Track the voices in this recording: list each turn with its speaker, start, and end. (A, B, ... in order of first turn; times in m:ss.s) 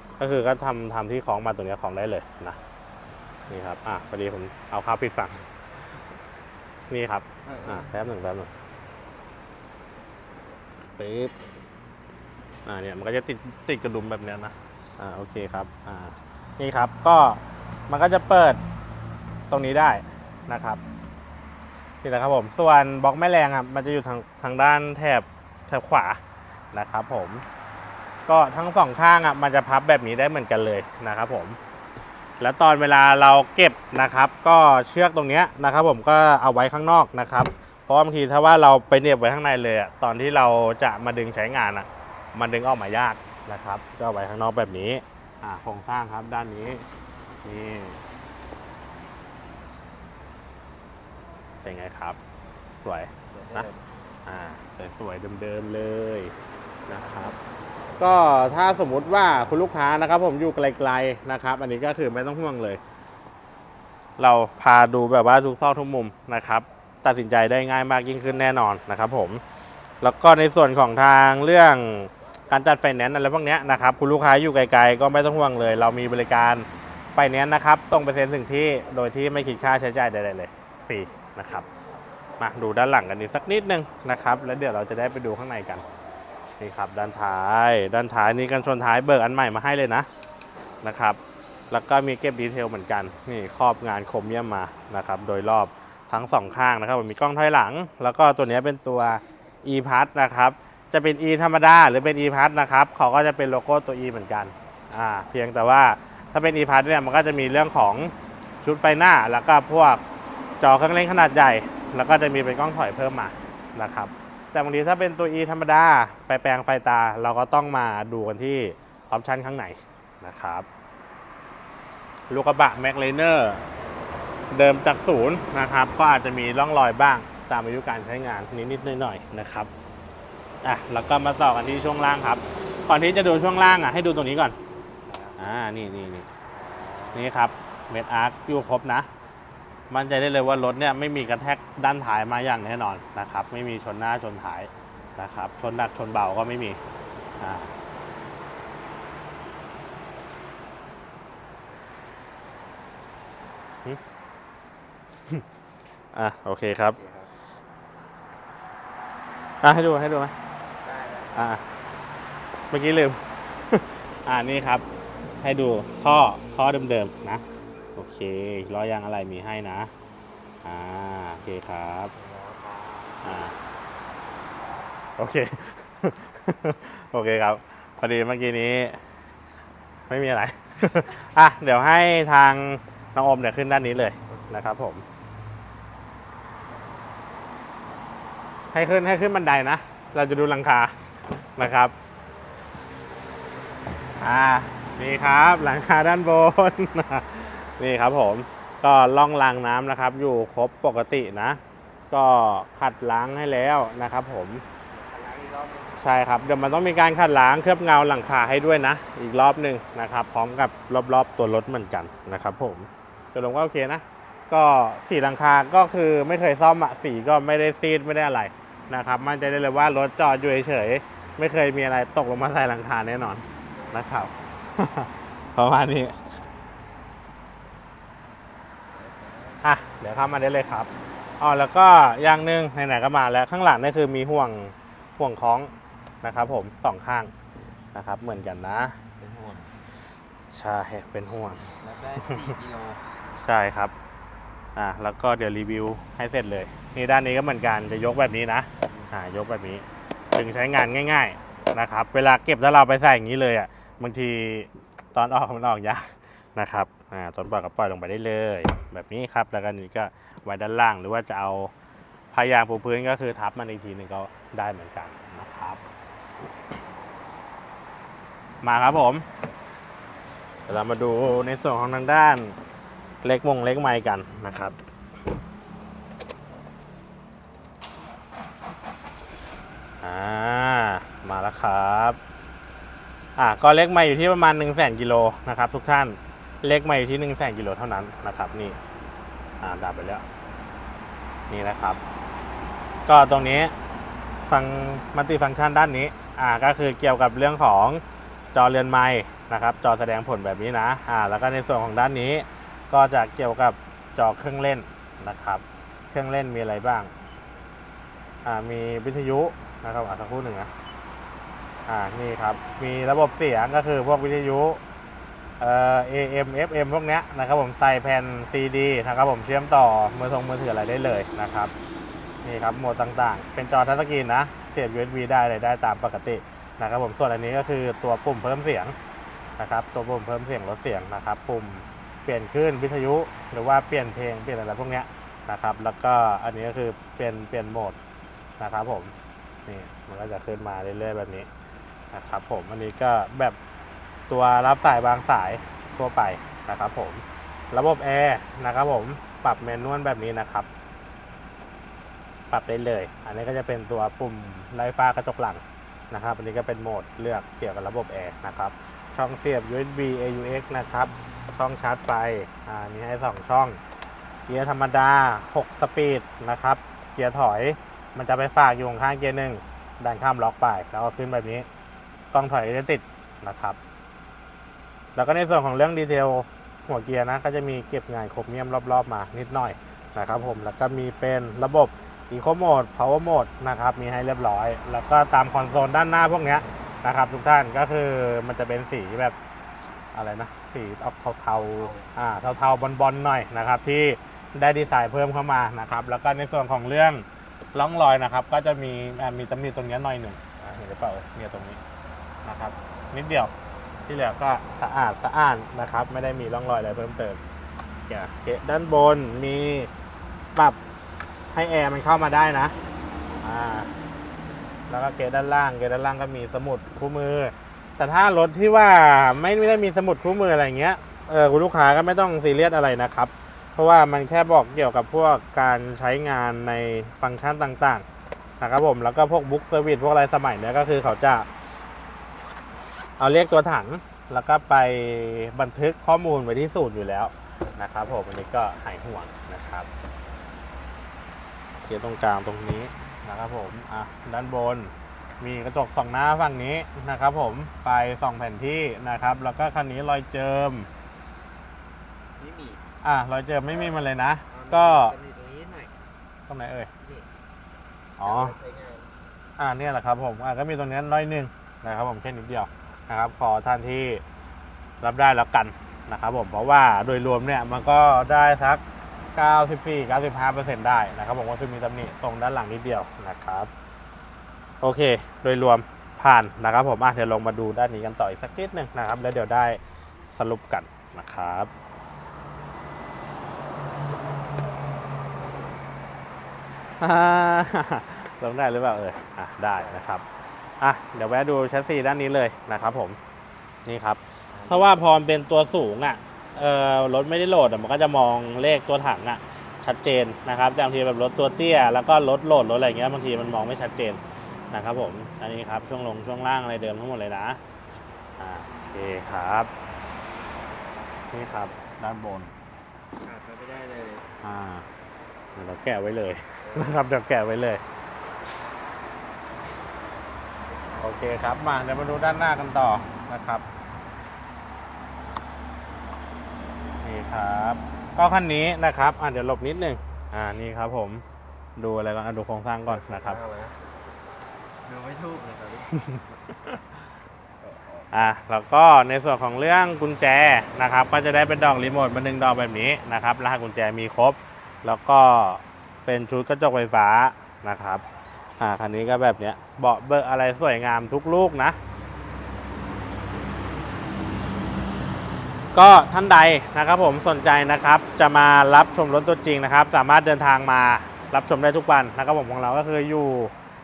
0:00.2-0:02.6 A
0:03.5-0:05.4 A
0:06.9-0:08.5 A
0:07.5-0:07.8 B
0:11.0-0:11.3 A
0:12.6-0:18.6 A
0:19.5-0:20.8 A
0:22.0-0:26.2 A
0:26.7-0:27.4 A
0:28.3-0:31.6 A
0:32.4-0:46.8 A
0:47.4-0:48.0 A
0:51.6-0:52.2 A
0:52.8-0:53.7 A
0:53.3-0:53.8 B
0:54.3-0:56.3 A
0:56.9-0:57.4 A
0:58.0-1:02.8 A
1:04.2-1:09.4 A
1:10.0-1:21.7 A
1:22.4-1:25.8 A
1:26.6-1:30.1 A
1:30.8-1:31.2 A
1:31.7-1:50.0 A
1:50.6-2:00.6 A
2:02.3-2:03.6 A
2:04.5-2:09.7 A
2:10.6-2:14.6 A
2:15.1-2:15.4 B
2:15.4-2:16.3 A
2:16.6-2:17.2 B
2:17.1-2:19.1 A
2:19.9-2:26.8 A
2:27.4-2:27.7 A
2:36.1-2:37.0 A
2:37.0-2:37.3 B
2:39.6-2:40.3 A
2:40.8-2:41.3 B
2:41.3-2:41.6 A
2:42.7-2:44.8 A
2:45.4-2:47.4 A
2:48.0-2:49.9 A
2:50.6-2:52.1 A
2:52.1-2:53.2 B
2:53.2-2:53.5 A
2:55.2-2:59.0 A
3:00.1-3:05.0 A
3:08.7-3:10.9 A
3:11.6-3:11.9 A
3:14.2-3:21.6 A
3:22.1-3:24.6 A
3:25.0-3:26.0 B
3:26.0-3:46.2 A
3:48.9-3:49.6 B
3:49.6-3:50.9 A
3:51.4-3:55.7 A
3:56.2-3:57.3 A
3:57.9-3:59.0 A
3:59.2-3:59.7 B
4:00.5-4:02.5 A
4:01.8-4:03.0 B
4:03.4-4:03.9 A
4:04.8-4:21.7 A
4:22.3-4:25.8 A
4:28.6-4:29.2 A
4:30.7-4:32.6 A
4:33.2-4:34.8 A
4:40.0-4:42.2 A
4:43.4-4:48.8 A
4:49.6-4:50.2 A
4:51.5-4:52.0 A
4:53.0-4:53.7 A
4:54.5-4:58.0 A
4:58.5-5:07.1 A
5:08.4-5:10.7 A
5:11.9-5:14.8 A
5:15.6-5:21.7 A
5:22.4-5:29.0 A
5:29.6-5:38.0 A
5:38.6-5:39.1 A
5:39.6-5:41.5 A
5:42.1-5:43.6 A
5:44.3-5:50.7 A
5:52.5-6:03.8 A
6:04.4-6:11.7 A
6:12.3-6:13.8 A
6:15.2-6:29.4 A
6:30.1-6:41.8 A
6:42.4-6:43.5 A
6:44.1-6:47.4 A
6:48.1-6:49.9 A
6:51.5-6:52.8 A
6:53.4-6:53.9 A
6:54.9-7:08.0 A
7:08.6-7:11.5 A
7:13.2-7:19.9 A
7:21.8-7:30.9 A
7:32.4-7:32.8 B
7:33.0-7:35.1 A
7:34.5-7:36.0 B
7:36.5-7:36.9 A
7:37.0-7:37.2 B
7:38.2-7:38.6 A
7:38.2-7:39.1 B
7:39.6-7:44.2 A
7:45.0-7:48.8 A
7:49.4-7:53.7 A
7:54.8-7:59.8 A
8:00.3-8:01.7 A
8:07.0-8:10.2 A
8:10.8-8:13.2 A
8:13.8-8:24.2 A
8:14.5-8:14.9 B
8:24.7-8:27.6 A
8:28.4-8:29.7 A
8:31.3-8:32.5 A
8:33.2-8:34.3 B
8:34.4-8:34.8 A
8:35.6-8:37.8 A
8:36.6-8:36.9 B
8:41.0-8:43.6 A
8:47.0-8:51.2 A
8:51.8-8:53.4 A
8:53.0-8:53.8 B
8:54.8-8:56.2 B
8:55.9-8:56.2 A
8:57.6-8:58.1 B
8:58.1-9:08.0 A
9:08.6-9:11.8 A
9:15.7-9:23.5 A